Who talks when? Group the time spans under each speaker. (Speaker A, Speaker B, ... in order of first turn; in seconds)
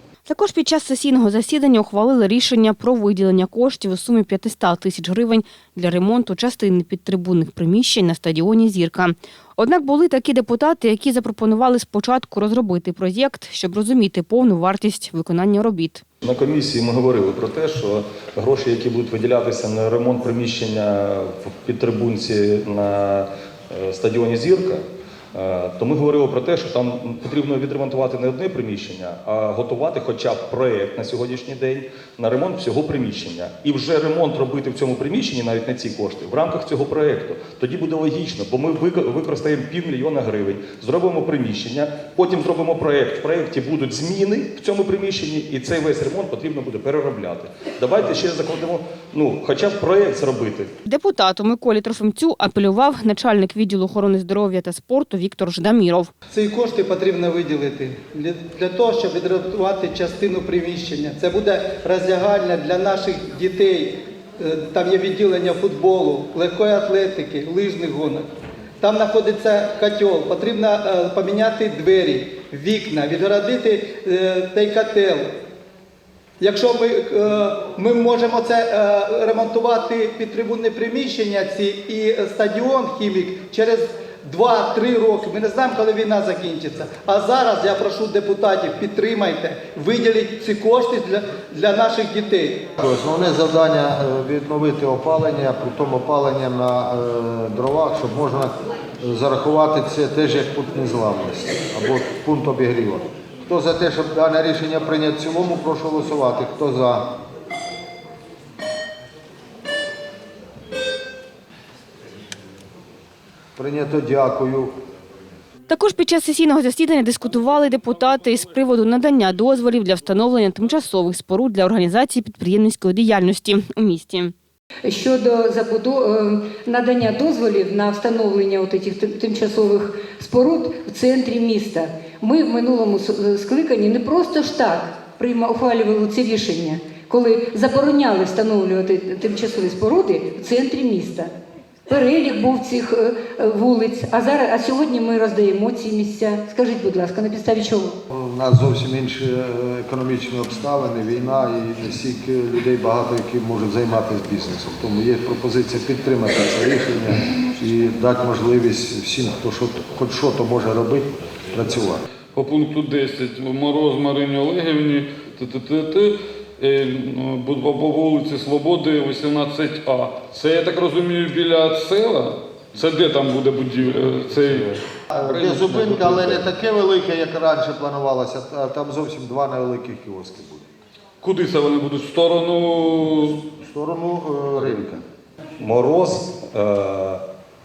Speaker A: 0.3-16.0, 50.9-56.1, 115.7-124.3
Speaker B: 16.2-50.7, 185.6-187.2
Speaker C: 56.3-68.3, 68.8-75.3, 76.4-92.6
Speaker D: 92.8-107.1, 113.5-114.7, 148.1-162.0, 175.1-180.7, 183.6-185.0
Speaker E: 124.8-141.3, 141.9-147.9
Speaker F: 162.3-176.4, 181.2-183.3